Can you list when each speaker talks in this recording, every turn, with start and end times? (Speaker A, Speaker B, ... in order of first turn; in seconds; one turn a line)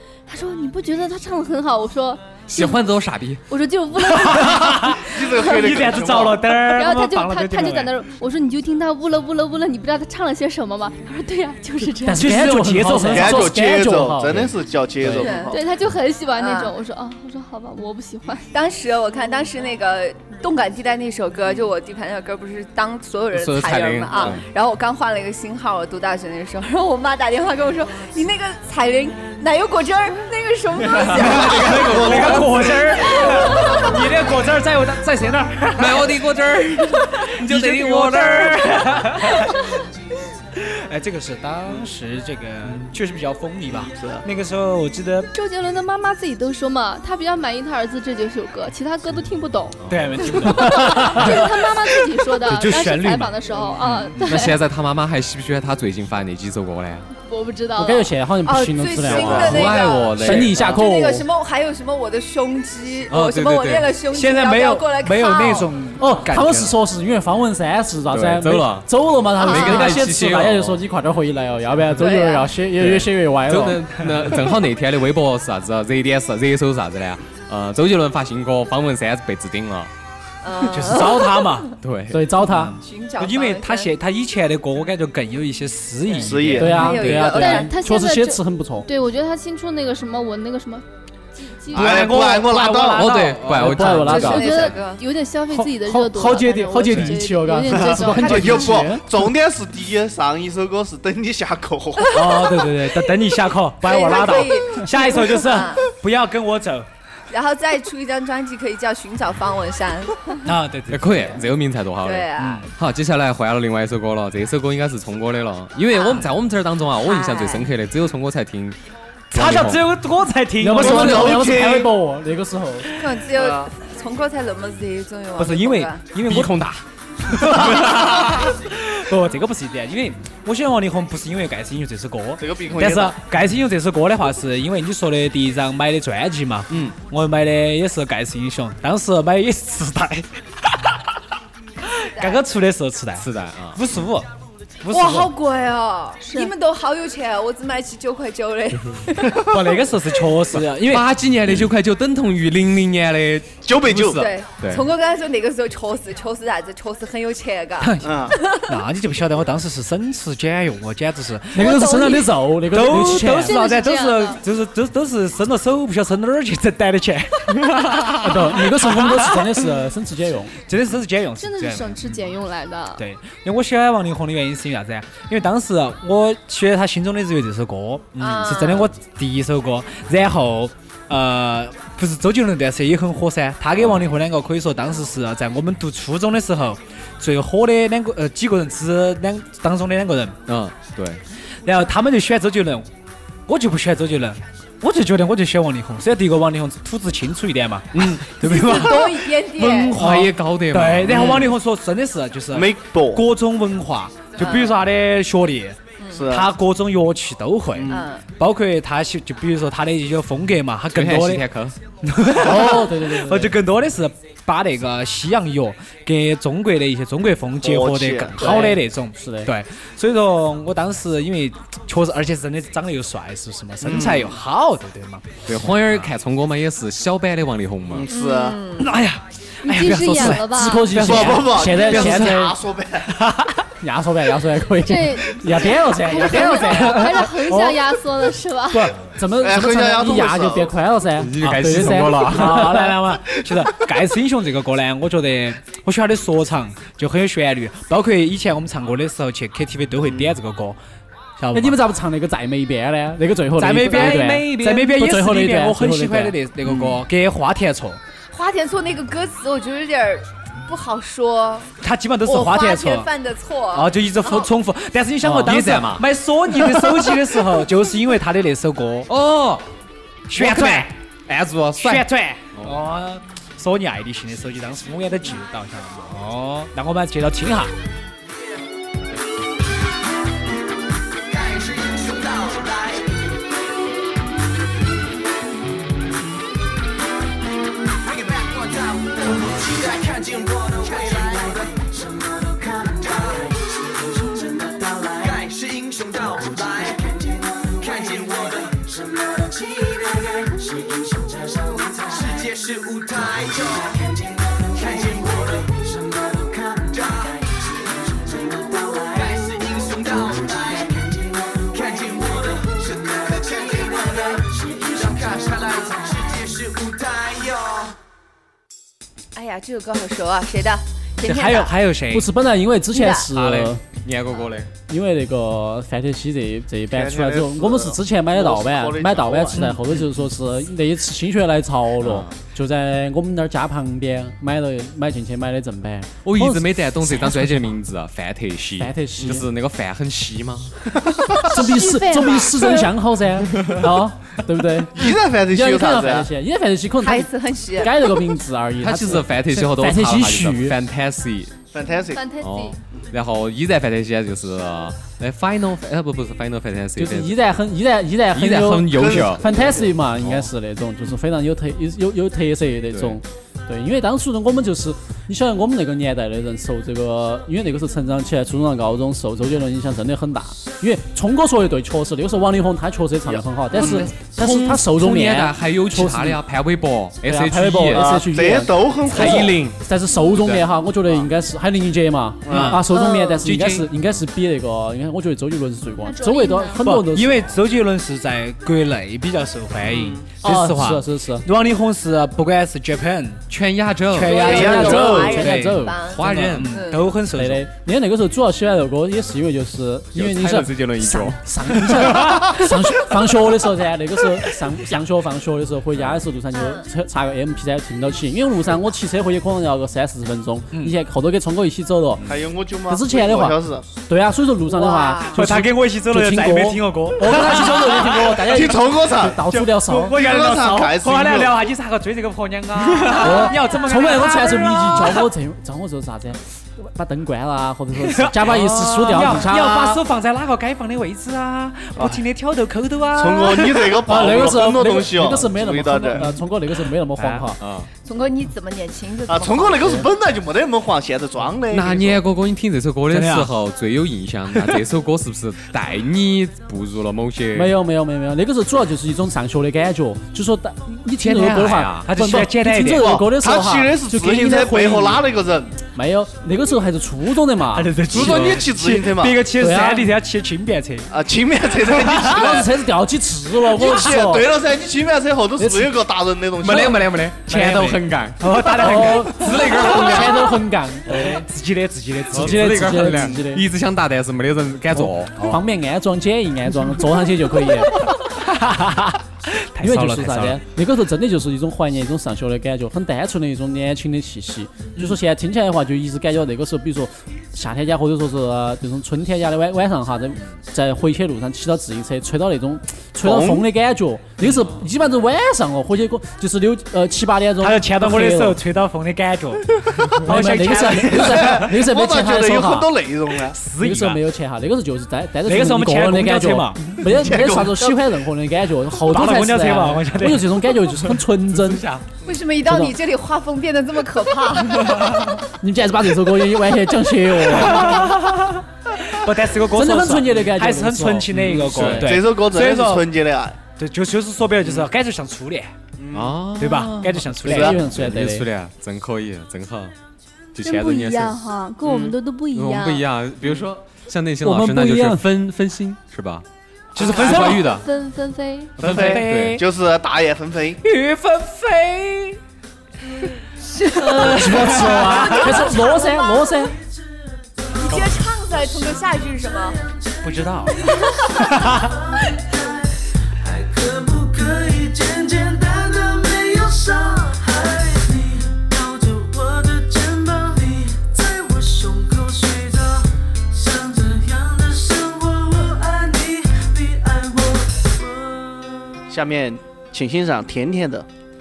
Speaker A: 0.3-2.9
Speaker B: 2.5-3.4
Speaker A: 3.5-5.7
Speaker C: 4.1-7.9
Speaker D: 4.9-6.5
Speaker A: 6.6-12.3
Speaker E: 12.1-14.5
Speaker C: 12.2-13.5
Speaker D: 13.1-15.6
Speaker E: 15.0-15.3
Speaker F: 15.2-15.7
Speaker A: 15.5-18.5
Speaker F: 16.3-16.7
Speaker F: 18.5-32.3
Speaker B: 23.3-24.4
Speaker B: 30.8-32.8
Speaker C: 31.5-39.6
Speaker D: 31.7-32.8
Speaker F: 32.9-33.9
Speaker B: 35.8-39.0
Speaker C: 40.5-45.3
Speaker D: 43.7-44.2
Speaker A: 45.3-54.6
Speaker B: 49.9-50.4
Speaker C: 49.9-51.7
Speaker C: 52.4-53.4
Speaker B: 53.8-57.1
Speaker A: 57.2-58.1
Speaker E: 57.8-61.3
Speaker F: 58.4-65.7
Speaker B: 59.1-60.7
Speaker D: 59.1-59.8
Speaker B: 63.1-63.9
Speaker C: 64.1-66.8
Speaker E: 66.0-73.8
Speaker B: 68.1-70.8
Speaker F: 69.4-70.0
Speaker F: 72.0-72.5
Speaker B: 72.8-79.9
Speaker C: 74.0-74.3
Speaker F: 80.4-81.7
Speaker C: 80.6-81.7
Speaker B: 81.8-82.3
Speaker E: 82.1-82.8
Speaker C: 82.4-87.0
Speaker F: 82.8-83.9
Speaker F: 86.1-87.7
Speaker D: 86.1-86.9
Speaker E: 86.6-88.9
Speaker A: 87.2-92.0
Speaker D: 91.7-93.1
Speaker C: 91.7-94.0
Speaker B: 92.9-94.7
Speaker E: 93.5-94.4
Speaker A: 94.0-98.8
Speaker F: 94.0-95.0
Speaker E: 95.5-99.0
Speaker B: 96.9-97.1
Speaker D: 97.7-102.4
Speaker C: 102.1-106.9
Speaker F: 103.8-105.9
Speaker F: 107.3-110.4
Speaker C: 110.4-111.4
Speaker B: 110.9-118.8
Speaker F: 112.0-112.7
Speaker C: 112.4-112.6
Speaker F: 115.9-116.3
Speaker F: 117.0-117.7
Speaker B: 119.3-119.9
Speaker C: 119.3-121.5
Speaker E: 120.6-122.9
Speaker B: 120.8-121.7
Speaker D: 120.8-121.9
Speaker F: 122.9-126.0
Speaker D: 123.3-123.7
Speaker C: 125.4-126.7
Speaker B: 126.2-126.8
Speaker C: 127.3-141.0
Speaker B: 127.4-128.5
Speaker D: 132.4-133.2
Speaker B: 136.7-136.9
Speaker C: 142.0-144.3
Speaker F: 142.2-142.4
Speaker B: 143.2-143.8
Speaker C: 144.8-145.3
Speaker F: 144.9-149.7
Speaker A: 146.2-146.5
Speaker C: 149.4-151.1
Speaker B: 150.6-154.8
Speaker D: 153.7-154.3
Speaker F: 154.1-158.6
Speaker C: 157.8-162.1
Speaker D: 158.0-158.4
Speaker E: 161.5-163.6
Speaker A: 161.6-164.4
Speaker C: 162.7-169.6
Speaker E: 168.1-170.6
Speaker C: 170.7-172.2
Speaker A: 171.4-173.0
Speaker C: 172.9-190.4
Speaker F: 178.2-178.9
Speaker B: 183.8-184.1
Speaker B: 190.5-191.2
Speaker C: 191.6-192.8
Speaker C: 193.5-211.4
Speaker B: 197.9-198.3
Speaker F: 198.4-200.0
Speaker B: 199.6-201.4
Speaker D: 201.1-201.5
Speaker D: 202.5-203.2
Speaker F: 204.3-204.8
Speaker F: 206.0-206.2
Speaker D: 206.1-206.5
Speaker D: 207.7-208.1
Speaker F: 207.9-208.2
Speaker B: 210.9-211.8
Speaker C: 212.0-226.1
Speaker E: 212.4-213.5
Speaker D: 217.6-218.7
Speaker E: 218.4-219.5
Speaker D: 223.8-224.3
Speaker B: 225.4-228.1
Speaker D: 227.9-228.6
Speaker F: 228.1-228.9
Speaker C: 228.8-233.6
Speaker A: 229.6-231.1
Speaker E: 230.5-232.6
Speaker D: 231.0-233.1
Speaker E: 233.8-237.7
Speaker A: 234.8-239.0
Speaker C: 236.7-237.0
Speaker E: 238.7-242.9
Speaker D: 239.4-240.8
Speaker B: 241.2-242.9
Speaker C: 242.2-250.8
Speaker D: 250.0-250.3
Speaker C: 251.4-251.8
Speaker E: 251.5-256.4
Speaker C: 253.6-258.0
Speaker F: 253.8-254.3
Speaker F: 258.3-261.7
Speaker C: 261.8-263.1
Speaker F: 262.2-264.5
Speaker C: 263.7-269.1
Speaker B: 265.2-266.0
Speaker B: 269.1-269.7
Speaker C: 270.3-270.9
Speaker B: 270.3-272.1
Speaker C: 271.8-277.7
Speaker G: 281.3-282.9
Speaker G: 288.4-291.7
Speaker G: 292.8-293.4
Speaker G: 295.1-298.9
Speaker G: 302.0-304.0
Speaker G: 304.7-307.3
Speaker G: 308.6-311.1
Speaker G: 311.6-317.9
Speaker F: 319.3-321.7
Speaker C: 321.2-322.3
Speaker E: 322.1-323.8
Speaker F: 322.9-323.3
Speaker B: 323.3-324.7
Speaker E: 324.9-337.8
Speaker D: 326.9-329.6
Speaker B: 332.0-332.3
Speaker B: 336.2-340.7
Speaker E: 338.8-339.4
Speaker A: 341.4-342.9
Speaker E: 341.5-350.8
Speaker D: 344.9-346.3
Speaker F: 347.0-348.1
Speaker B: 348.8-351.6
Speaker D: 351.7-352.2
Speaker A: 351.9-352.8
Speaker B: 352.4-357.4
Speaker E: 356.9-376.4
Speaker B: 358.3-359.4
Speaker D: 358.9-359.9
Speaker B: 360.1-360.5
Speaker B: 362.9-363.2
Speaker B: 373.7-378.2
Speaker E: 377.2-387.6
Speaker D: 377.9-379.6
Speaker B: 379.1-379.8
Speaker D: 382.4-382.8
Speaker C: 382.5-382.9
Speaker A: 383.0-383.4
Speaker B: 383.4-384.2
Speaker A: 386.0-386.9
Speaker C: 386.8-393.5
Speaker D: 389.8-390.2
Speaker E: 390.4-391.4
Speaker B: 393.5-396.8
Speaker C: 394.1-395.3
Speaker F: 394.1-397.1
Speaker D: 394.3-395.4
Speaker E: 394.4-396.5
Speaker C: 396.3-397.6
Speaker E: 397.3-412.2
Speaker B: 400.1-402.6
Speaker B: 405.9-406.2
Speaker F: 406.5-406.9
Speaker D: 412.2-413.9
Speaker E: 412.9-420.1
Speaker F: 414.7-415.5
Speaker C: 415.3-418.4
Speaker D: 418.2-419.4
Speaker C: 419.5-425.3
Speaker D: 420.1-421.6
Speaker E: 423.1-430.0
Speaker C: 427.9-434.0
Speaker D: 432.0-432.2
Speaker D: 433.1-436.3
Speaker E: 434.0-437.6
Speaker C: 437.2-437.4
Speaker B: 437.6-437.9
Speaker F: 438.0-440.1
Speaker D: 439.2-442.2
Speaker B: 441.7-447.7
Speaker C: 443.1-443.5
Speaker E: 447.5-455.2
Speaker B: 451.2-452.1
Speaker C: 451.2-453.2
Speaker D: 453.0-455.7
Speaker E: 455.9-457.9
Speaker C: 457.7-461.1
Speaker D: 458.1-459.4
Speaker B: 458.1-458.6
Speaker E: 459.6-460.1
Speaker D: 461.1-462.7
Speaker E: 462.3-464.4
Speaker D: 463.7-467.0
Speaker E: 465.6-465.9
Speaker B: 466.6-470.6
Speaker C: 467.5-470.2
Speaker E: 468.8-471.4
Speaker C: 471.1-473.1
Speaker B: 472.3-475.3
Speaker E: 472.3-473.6
Speaker E: 474.9-478.0
Speaker C: 478.4-480.6
Speaker E: 479.8-498.6
Speaker D: 493.2-493.7
Speaker C: 494.4-494.8
Speaker C: 497.6-501.6
Speaker E: 500.2-502.9
Speaker D: 501.2-503.6
Speaker C: 503.4-504.2
Speaker E: 503.8-511.8
Speaker C: 505.4-506.8
Speaker D: 507.0-508.0
Speaker C: 509.1-510.5
Speaker B: 511.5-512.0
Speaker F: 512.2-515.4
Speaker E: 512.6-512.9
Speaker E: 515.6-518.1
Speaker C: 517.4-523.1
Speaker E: 519.7-522.0
Speaker B: 521.3-522.1
Speaker D: 521.8-523.6
Speaker C: 523.8-525.7
Speaker D: 526.0-526.4
Speaker B: 526.1-529.9
Speaker C: 526.6-527.8
Speaker E: 527.5-528.5
Speaker B: 530.5-536.4
Speaker A: 530.6-533.1
Speaker E: 534.4-535.2
Speaker C: 536.9-537.8
Speaker D: 537.0-537.4
Speaker B: 537.0-537.9
Speaker A: 537.6-538.8
Speaker C: 538.8-539.6
Speaker D: 538.8-540.8
Speaker B: 538.8-539.6
Speaker C: 540.8-542.4
Speaker F: 543.7-545.9
Speaker A: 543.9-544.4
Speaker C: 543.9-545.6
Speaker E: 544.1-546.7
Speaker A: 545.2-546.6
Speaker F: 547.7-549.8
Speaker C: 547.9-548.2
Speaker C: 550.2-550.8
Speaker F: 550.9-551.5
Speaker C: 551.4-551.9
Speaker G: 553.4-568.6
Speaker D: 569.1-571.0